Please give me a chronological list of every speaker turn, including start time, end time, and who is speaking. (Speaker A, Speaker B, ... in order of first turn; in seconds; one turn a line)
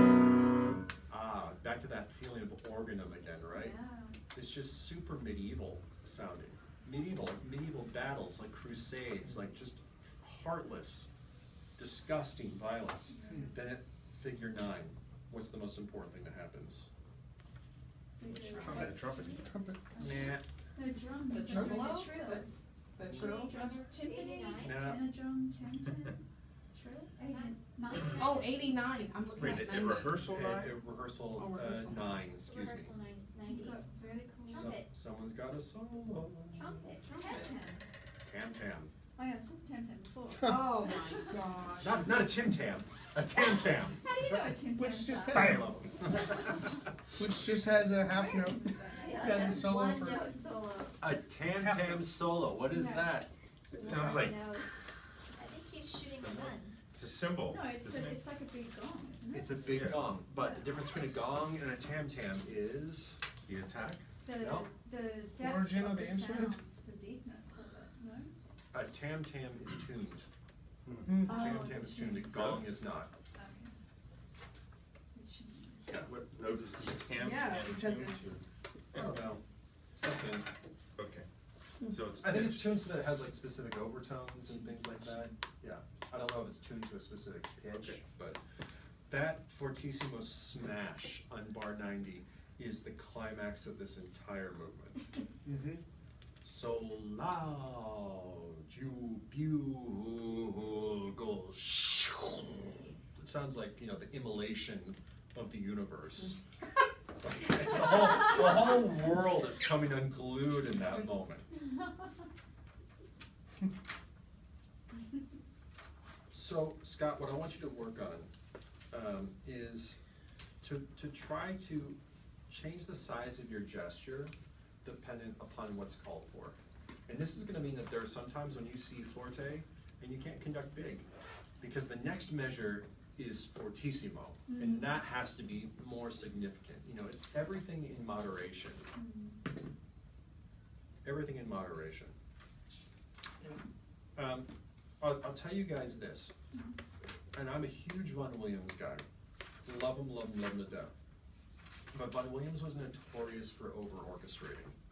Speaker A: 1.1-3.8
Speaker B: 3.5-4.2
Speaker A: 4.3-11.1
Speaker A: 11.8-16.9
Speaker B: 13.1-13.5
Speaker B: 18.2-18.9
Speaker C: 18.3-19.0
Speaker D: 18.6-20.0
Speaker E: 18.6-19.6
Speaker B: 19.9-22.5
Speaker A: 19.9-20.4
Speaker C: 21.3-23.9
Speaker B: 23.1-26.2
Speaker F: 23.5-24.8
Speaker A: 24.6-25.1
Speaker B: 26.8-28.6
Speaker F: 27.3-28.3
Speaker C: 28.0-30.2
Speaker E: 29.4-30.8
Speaker A: 30.2-32.9
Speaker C: 31.3-32.3
Speaker F: 32.4-33.7
Speaker B: 33.5-34.8
Speaker A: 34.5-37.0
Speaker F: 36.5-37.2
Speaker C: 37.0-37.7
Speaker B: 37.2-37.8
Speaker A: 38.2-38.9
Speaker B: 39.2-41.4
Speaker D: 40.4-40.7
Speaker C: 40.4-42.1
Speaker A: 41.8-44.0
Speaker B: 43.4-45.5
Speaker D: 44.2-45.9
Speaker A: 45.3-46.8
Speaker B: 46.0-46.7
Speaker D: 47.2-50.5
Speaker B: 48.1-49.2
Speaker F: 49.0-51.0
Speaker A: 51.0-54.6
Speaker D: 51.4-52.1
Speaker B: 52.7-53.2
Speaker E: 53.7-54.5
Speaker F: 54.2-54.6
Speaker F: 55.4-56.7
Speaker A: 55.7-56.0
Speaker E: 56.2-58.2
Speaker B: 57.5-61.0
Speaker A: 59.3-64.7
Speaker E: 59.6-60.1
Speaker E: 63.5-64.0
Speaker B: 64.2-68.3
Speaker D: 65.4-66.6
Speaker A: 68.7-70.3
Speaker E: 70.9-71.2
Speaker D: 71.1-71.3
Speaker B: 71.3-72.4
Speaker A: 71.3-73.1
Speaker E: 72.3-72.7
Speaker B: 73.3-73.8
Speaker B: 75.1-77.0
Speaker E: 75.9-78.4
Speaker C: 77.2-78.4
Speaker E: 78.9-79.2
Speaker A: 78.9-79.4
Speaker A: 80.0-80.5
Speaker E: 81.0-81.3
Speaker E: 81.8-82.8
Speaker A: 82.2-88.4
Speaker E: 87.7-88.0
Speaker A: 89.1-95.1
Speaker D: 95.5-95.8
Speaker A: 96.4-106.4
Speaker A: 107.2-111.5
Speaker A: 116.3-118.3
Speaker A: 118.9-120.0
Speaker A: 120.6-124.3
Speaker A: 124.8-131.1
Speaker A: 131.6-138.9
Speaker B: 134.5-134.9
Speaker B: 138.9-139.4
Speaker A: 141.0-142.2
Speaker A: 144.2-144.5
Speaker A: 145.0-146.3
Speaker A: 147.3-149.0
Speaker A: 149.7-150.9
Speaker A: 151.9-154.8